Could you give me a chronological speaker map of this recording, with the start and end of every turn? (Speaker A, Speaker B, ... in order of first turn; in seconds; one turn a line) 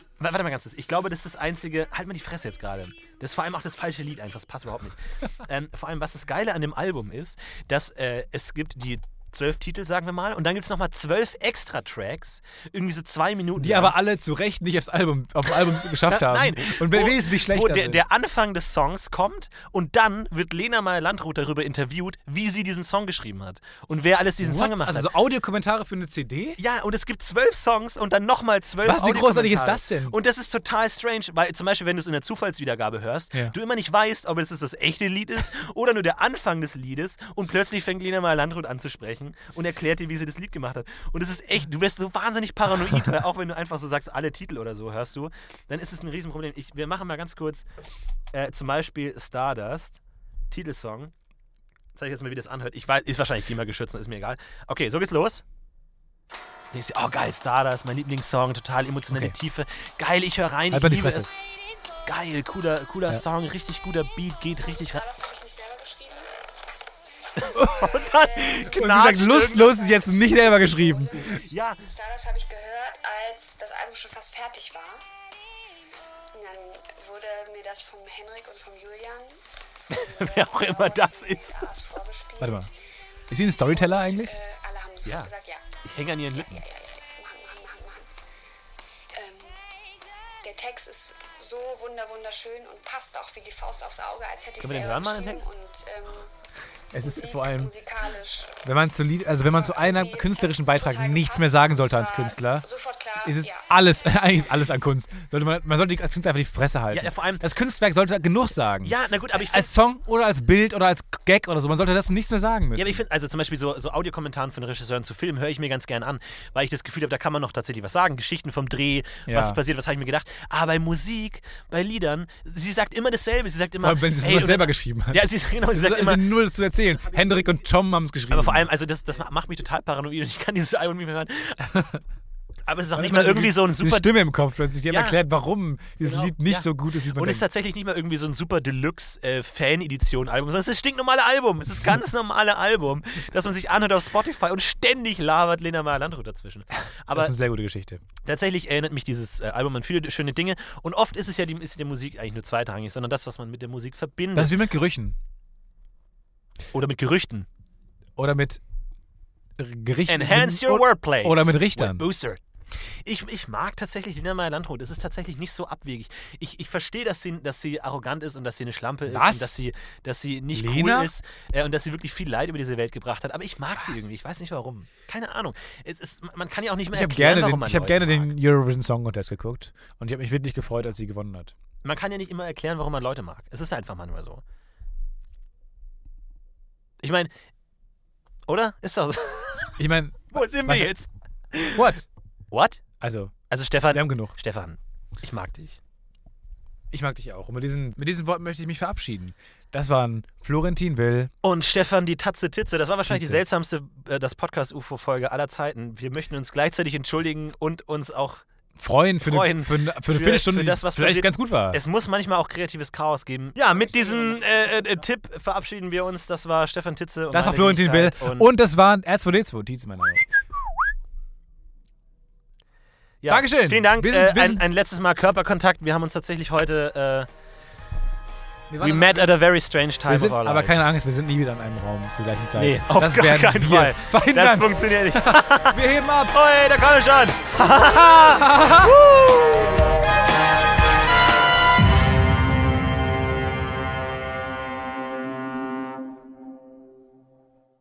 Speaker A: 0.2-13.9
Speaker B: 13.6-18.0
Speaker A: 16.0-25.1
Speaker B: 24.4-26.6
Speaker A: 26.6-47.6
Speaker B: 28.8-30.1
Speaker A: 48.3-50.0
Speaker A: 50.5-51.1
Speaker A: 51.9-55.4
Speaker A: 56.7-61.3
Speaker B: 59.1-59.4
Speaker B: 60.7-61.3
Speaker A: 62.0-65.0
Speaker C: 64.6-66.3
Speaker A: 67.4-69.7
Speaker C: 67.4-75.0
Speaker B: 67.5-67.9
Speaker B: 68.6-71.4
Speaker A: 71.3-71.8
Speaker C: 76.3-82.7
Speaker A: 79.9-81.7
Speaker B: 82.4-82.7
Speaker B: 83.3-84.3
Speaker C: 83.4-85.6
Speaker A: 85.0-85.3
Speaker A: 85.8-86.6
Speaker C: 86.3-88.1
Speaker C: 89.1-89.6
Speaker C: 90.4-96.3
Speaker A: 94.6-95.5
Speaker B: 96.9-97.7
Speaker C: 96.9-98.6
Speaker B: 98.6-102.7
Speaker C: 99.4-104.6
Speaker B: 103.2-113.0
Speaker A: 106.9-107.4
Speaker A: 108.8-109.7
Speaker A: 112.8-126.3
Speaker B: 119.2-119.6
Speaker B: 123.8-128.7
Speaker A: 127.1-127.5
Speaker A: 128.3-131.7
Speaker B: 131.6-132.0
Speaker A: 132.7-134.1
Speaker B: 132.9-137.5
Speaker A: 134.9-135.2
Speaker A: 136.0-147.3
Speaker B: 147.1-148.0
Speaker A: 148.2-154.6
Speaker B: 154.3-155.2
Speaker A: 156.7-157.5
Speaker B: 158.2-158.6
Speaker B: 159.6-162.1
Speaker A: 160.1-162.4
Speaker A: 163.0-178.3
Speaker B: 169.1-169.5
Speaker B: 170.5-171.1
Speaker B: 176.9-181.5
Speaker A: 181.8-184.4
Speaker A: 187.0-187.3
Speaker A: 188.5-189.8
Speaker B: 189.8-190.9
Speaker A: 190.3-191.9
Speaker B: 191.7-192.1
Speaker A: 192.5-192.8
Speaker B: 193.0-193.3
Speaker A: 193.5-195.8
Speaker B: 193.9-194.3
Speaker B: 196.9-201.3
Speaker A: 201.4-208.4
Speaker B: 203.1-203.4
Speaker B: 208.8-211.8
Speaker A: 209.2-218.5
Speaker B: 213.7-214.8
Speaker B: 217.3-220.3
Speaker A: 223.2-227.3
Speaker B: 223.3-224.6
Speaker B: 228.7-229.4
Speaker A: 228.8-230.9
Speaker B: 230.1-236.3
Speaker A: 232.6-239.8
Speaker B: 237.6-238.9